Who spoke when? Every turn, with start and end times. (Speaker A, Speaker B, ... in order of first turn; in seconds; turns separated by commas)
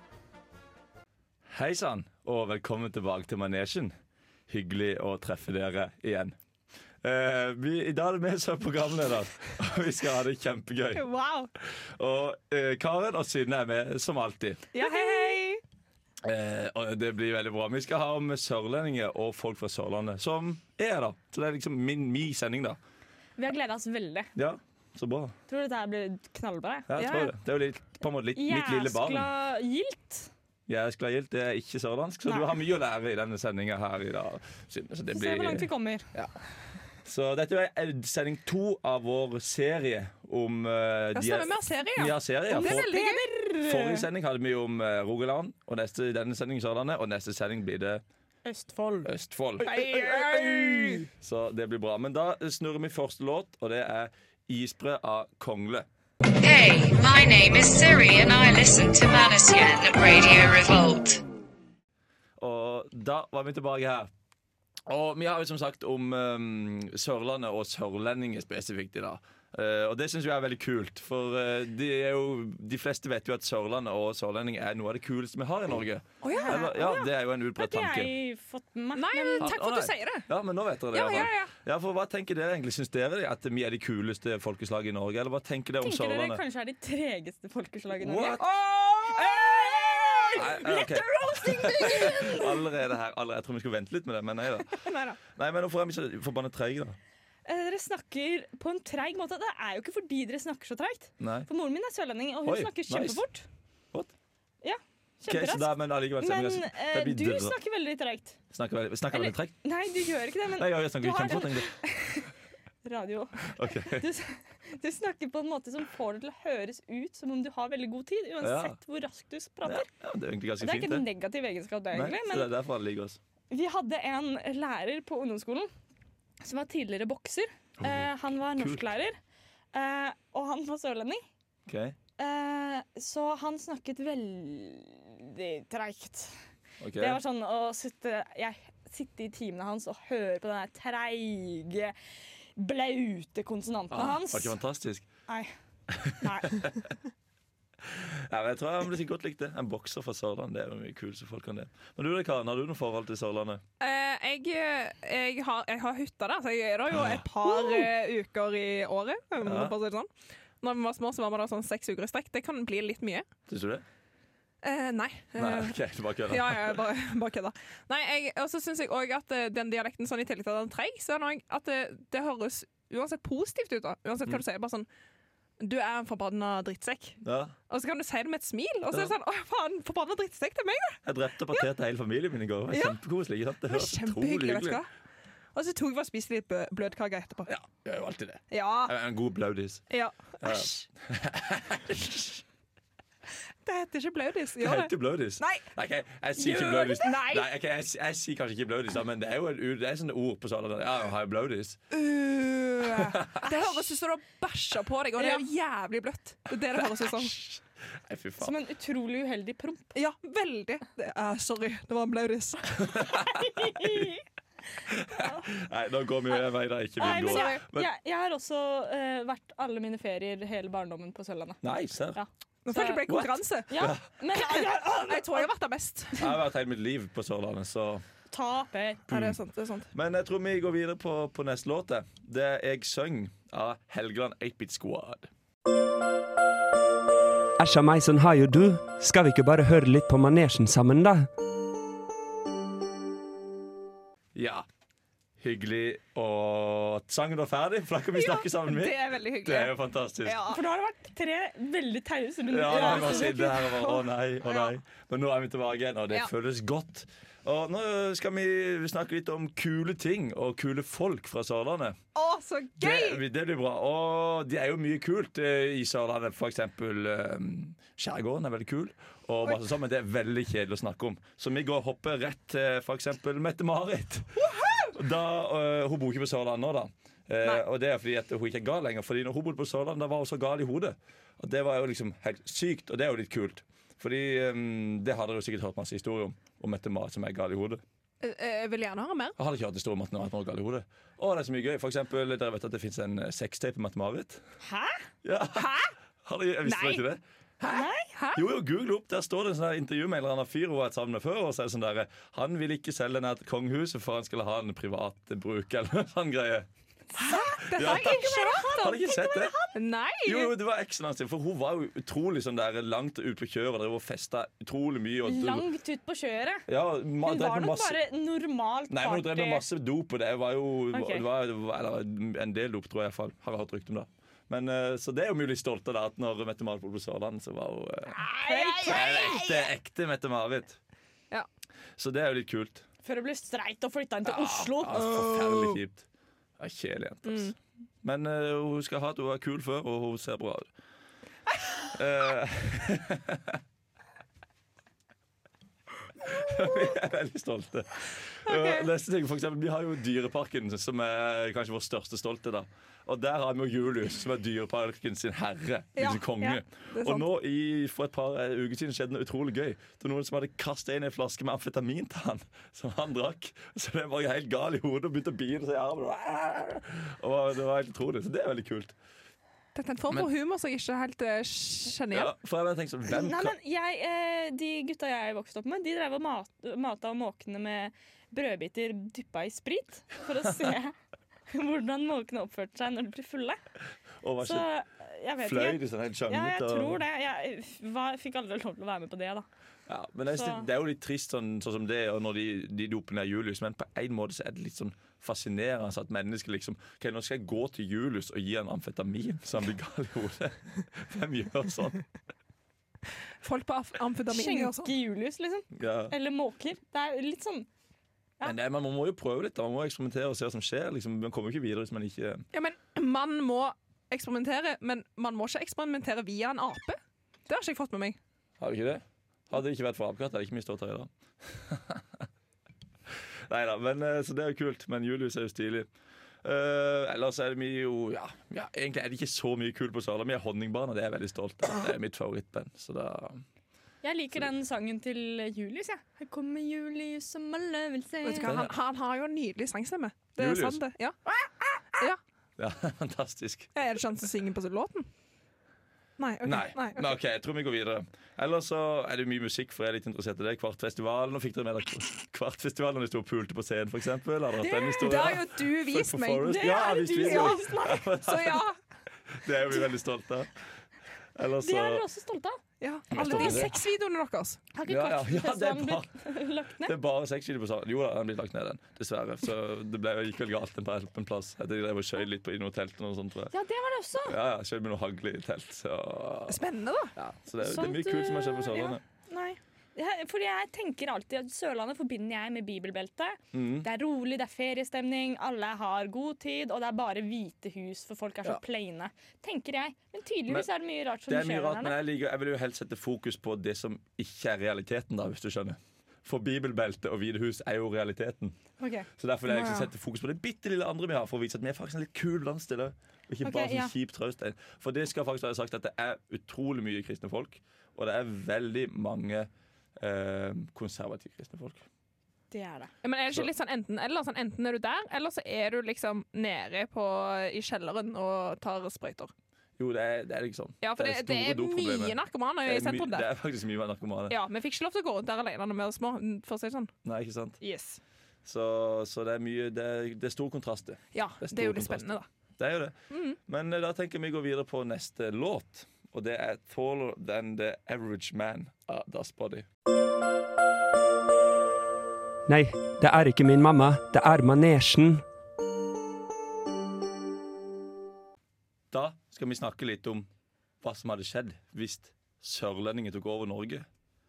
Speaker A: 1.5-3.9, Speaker A: 4.5-6.4, Speaker A: 7.0-11.1, Speaker B: 11.0-11.5, Speaker A: 11.6-14.7, Speaker C: 14.7-15.5, Speaker B: 14.7-15.6, Speaker A: 16.2-22.8, Speaker C: 23.4-24.3, Speaker A: 24.4-25.4, Speaker C: 25.5-26.9, Speaker A: 26.9-29.3, Speaker B: 27.0-27.3, Speaker C: 28.4-30.3, Speaker A: 30.7-36.3, Speaker C: 32.3-32.5, Speaker C: 35.1-36.1, Speaker A: 37.0-43.0, Speaker B: 41.1-43.3, Speaker C: 42.5-44.1, Speaker A: 43.6-48.0, Speaker C: 48.5-49.1, Speaker A: 49.0-55.9, Speaker C: 49.6-51.0, Speaker B: 49.6-51.0, Speaker D: 56.4-61.2, Speaker A: 62.4-64.1, Speaker A: 64.9-78.1, Speaker B: 76.2-76.6, Speaker C: 76.3-79.5, Speaker B: 79.0-80.3, Speaker A: 79.4-86.4, Speaker B: 80.9-81.5, Speaker C: 85.8-92.6, Speaker A: 88.0-88.5, Speaker B: 89.1-90.3, Speaker A: 90.3-97.0, Speaker C: 94.8-95.2, Speaker C: 97.5-103.5, Speaker A: 101.2-101.5, Speaker A: 102.5-103.2, Speaker C: 104.6-108.4, Speaker A: 105.3-107.6, Speaker A: 108.5-109.5, Speaker C: 109.1-112.3, Speaker A: 110.6-111.8, Speaker C: 112.8-119.9, Speaker A: 113.4-114.1, Speaker A: 118.4-118.8, Speaker A: 119.6-121.1, Speaker C: 120.6-122.5, Speaker A: 121.9-123.2, Speaker C: 123.5-125.7, Speaker C: 126.4-129.2, Speaker A: 127.8-128.9, Speaker C: 129.7-131.2, Speaker A: 131.7-132.0, Speaker C: 132.2-136.4, Speaker A: 136.8-137.2, Speaker C: 137.0-141.9, Speaker C: 142.6-144.6, Speaker A: 143.9-145.1, Speaker A: 145.9-146.8, Speaker C: 146.2-146.6, Speaker A: 147.8-153.6, Speaker B: 153.8-160.1, Speaker A: 156.9-157.2, Speaker A: 159.4-159.8, Speaker B: 160.6-163.3, Speaker A: 163.5-163.8, Speaker B: 164.6-165.8, Speaker A: 165.4-166.8, Speaker B: 166.3-174.9, Speaker B: 175.6-181.0, Speaker A: 177.2-177.5, Speaker A: 181.0-184.8, Speaker B: 182.7-183.0, Speaker B: 183.7-184.9, Speaker B: 185.6-187.5, Speaker A: 187.5-189.8, Speaker B: 188.5-188.9, Speaker B: 189.9-190.9, Speaker A: 190.4-192.4, Speaker B: 193.7-195.7, Speaker A: 194.6-201.8, Speaker B: 196.4-197.5, Speaker B: 201.9-207.3, Speaker A: 202.8-203.6, Speaker A: 206.8-208.6, Speaker C: 208.4-209.9, Speaker B: 209.9-212.9, Speaker A: 212.8-214.1, Speaker C: 213.1-214.2, Speaker A: 214.9-217.9, Speaker C: 215.2-215.4, Speaker C: 217.0-221.6, Speaker B: 217.1-217.6, Speaker A: 221.6-222.2, Speaker C: 222.1-223.1, Speaker B: 222.7-223.7, Speaker A: 223.1-224.0, Speaker C: 223.7-225.5, Speaker B: 224.3-226.3, Speaker A: 226.2-228.0, Speaker C: 228.3-229.1, Speaker A: 229.1-229.4, Speaker B: 229.1-229.9, Speaker A: 229.9-235.3, Speaker E: 237.6-241.3, Speaker A: 244.3-244.7, Speaker A: 245.4-250.5, Speaker B: 248.1-250.6, Speaker C: 250.5-253.6, Speaker A: 252.5-262.0, Speaker B: 252.7-254.7, Speaker B: 262.1-263.2, Speaker A: 262.8-287.8, Speaker B: 274.4-274.9, Speaker B: 288.2-289.4, Speaker A: 289.4-294.4, Speaker C: 294.6-295.0, Speaker A: 295.2-295.7, Speaker B: 295.5-295.9, Speaker A: 296.2-306.7, Speaker B: 296.6-297.0, Speaker C: 297.7-298.1, Speaker B: 298.1-298.4, Speaker C: 307.1-309.8, Speaker B: 307.2-309.0, Speaker A: 307.7-309.5, Speaker B: 309.7-310.6, Speaker A: 310.2-315.7, Speaker C: 315.2-316.7, Speaker A: 316.7-318.0, Speaker C: 317.2-319.6, Speaker A: 318.9-328.2, Speaker C: 320.9-321.3, Speaker C: 328.1-329.4, Speaker B: 328.4-329.5, Speaker A: 328.9-330.8, Speaker A: 332.0-332.9, Speaker C: 333.0-335.2, Speaker A: 334.2-336.1, Speaker A: 336.6-340.7, Speaker B: 337.3-337.5, Speaker A: 341.9-343.6, Speaker A: 346.2-368.9, Speaker B: 348.5-348.9, Speaker B: 356.0-357.3, Speaker B: 369.8-372.3, Speaker A: 372.1-373.6, Speaker C: 373.1-380.9, Speaker A: 380.4-380.7, Speaker C: 381.5-383.6, Speaker A: 384.2-384.7, Speaker C: 384.4-389.5, Speaker A: 385.4-387.0, Speaker A: 389.9-402.1, Speaker C: 390.3-390.7, Speaker B: 403.4-404.9, Speaker C: 404.3-407.7, Speaker A: 405.7-406.1, Speaker A: 408.4-412.5, Speaker B: 412.5-418.2, Speaker A: 418.6-422.3, Speaker A: 423.5-425.9, Speaker A: 426.4-433.4, Speaker C: 434.0-438.5, Speaker B: 438.2-441.2, Speaker A: 438.4-438.7, Speaker A: 440.4-440.8, Speaker A: 442.6-443.7, Speaker B: 443.8-445.1, Speaker B: 446.2-447.1, Speaker A: 446.4-458.6, Speaker B: 454.8-457.6, Speaker C: 456.4-458.1, Speaker B: 458.2-458.8, Speaker A: 459.3-460.5, Speaker A: 461.4-462.1, Speaker C: 461.6-462.6, Speaker B: 462.8-464.6, Speaker A: 463.1-463.8, Speaker C: 463.2-463.6, Speaker C: 464.8-467.0, Speaker A: 464.9-466.1, Speaker A: 466.8-473.5, Speaker C: 473.5-474.4, Speaker A: 474.3-476.6, Speaker B: 476.5-477.1, Speaker A: 477.2-479.0, Speaker C: 477.6-492.0, Speaker A: 483.5-483.9, Speaker A: 491.3-498.6, Speaker C: 498.8-499.8, Speaker A: 499.2-511.9, Speaker C: 503.4-503.9, Speaker C: 512.5-512.9, Speaker B: 513.0-519.3, Speaker A: 519.8-524.4, Speaker B: 520.8-523.3, Speaker B: 524.3-526.9, Speaker A: 527.0-527.6, Speaker B: 527.6-528.0, Speaker A: 528.5-539.7, Speaker B: 531.1-532.3, Speaker B: 533.1-533.4, Speaker E: 542.5-545.2, Speaker A: 548.9-550.3, Speaker A: 550.8-553.9